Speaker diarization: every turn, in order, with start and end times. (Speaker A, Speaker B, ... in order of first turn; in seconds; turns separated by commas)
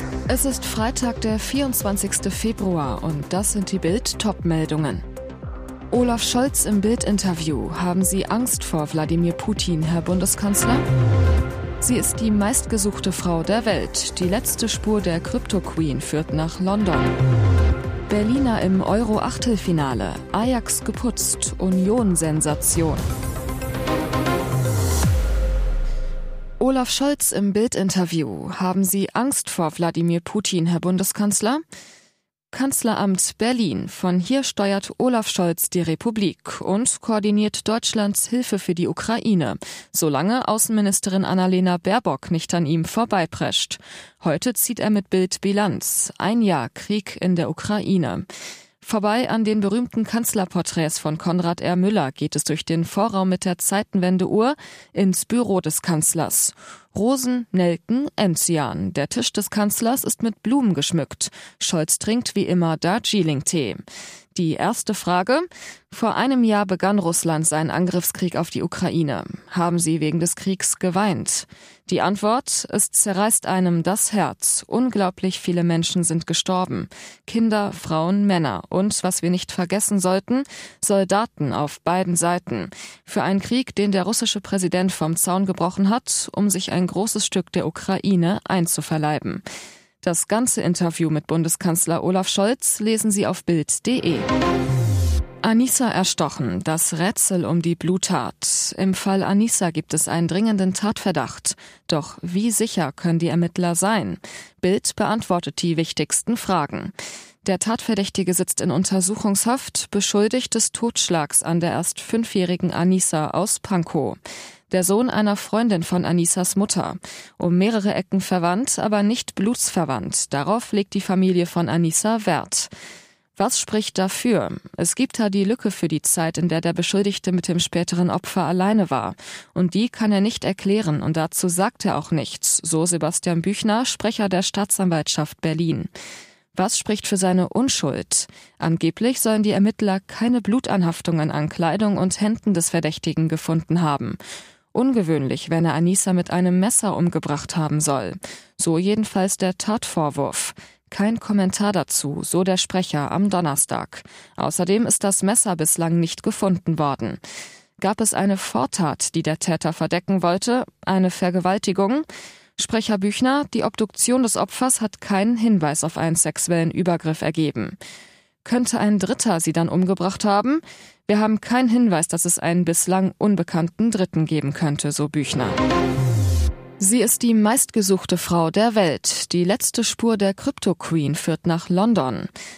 Speaker A: 0.3-5.0, Speaker A: 5.9-10.8, Speaker A: 11.8-17.1, Speaker A: 18.1-23.0, Speaker A: 26.6-31.6, Speaker A: 32.5-48.3, Speaker A: 48.8-63.8, Speaker A: 64.3-89.4, Speaker A: 90.0-94.3, Speaker A: 95.4-106.9, Speaker A: 107.4-114.2, Speaker A: 114.7-122.7, Speaker A: 123.4-135.9, Speaker A: 136.6-144.2, Speaker A: 144.7-157.2, Speaker A: 157.8-162.1, Speaker A: 162.6-167.8, Speaker A: 168.4-175.6, Speaker A: 176.8-182.3